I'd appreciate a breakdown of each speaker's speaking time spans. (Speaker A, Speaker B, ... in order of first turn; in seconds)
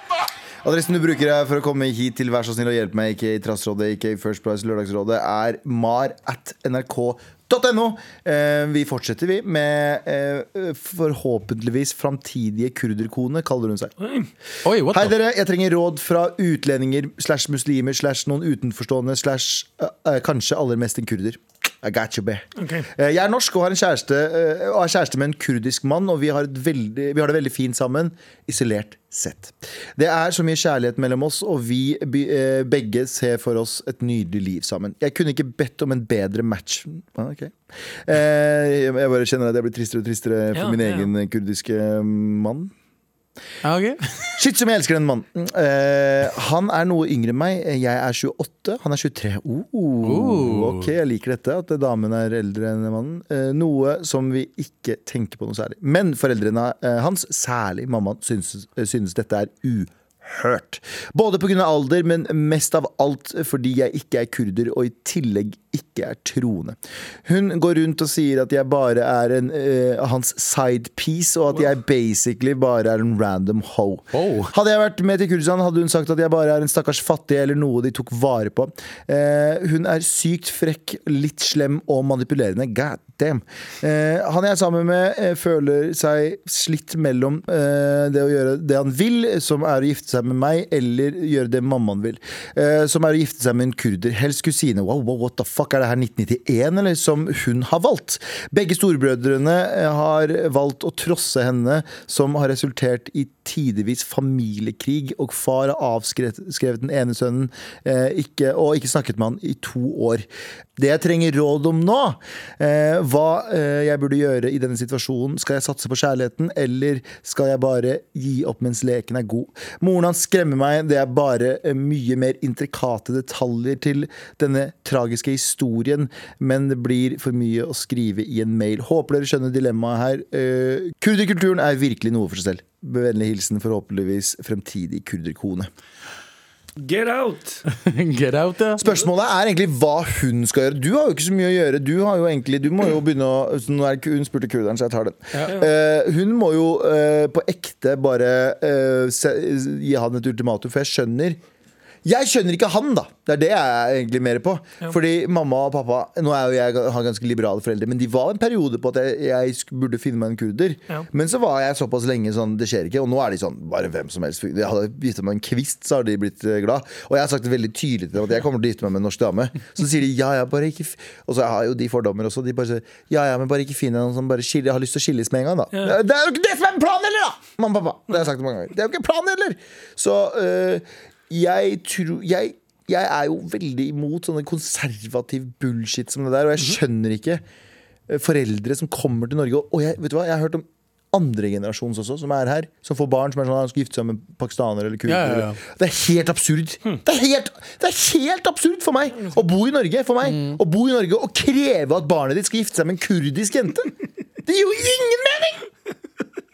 Speaker A: 0.6-13.9, 14.9-42.7, 44.4-110.2, 110.8-135.7, 138.8-151.4, 152.0-187.4, 188.1-205.7
Speaker B: 14.0-14.3, 22.6-22.9, 40.5-41.1, 136.8-137.6
Speaker C: 14.6-15.1, 43.6-44.4, 50.0-50.9, 74.1-74.5, 137.7-138.8, 195.1-195.6, 200.2-200.6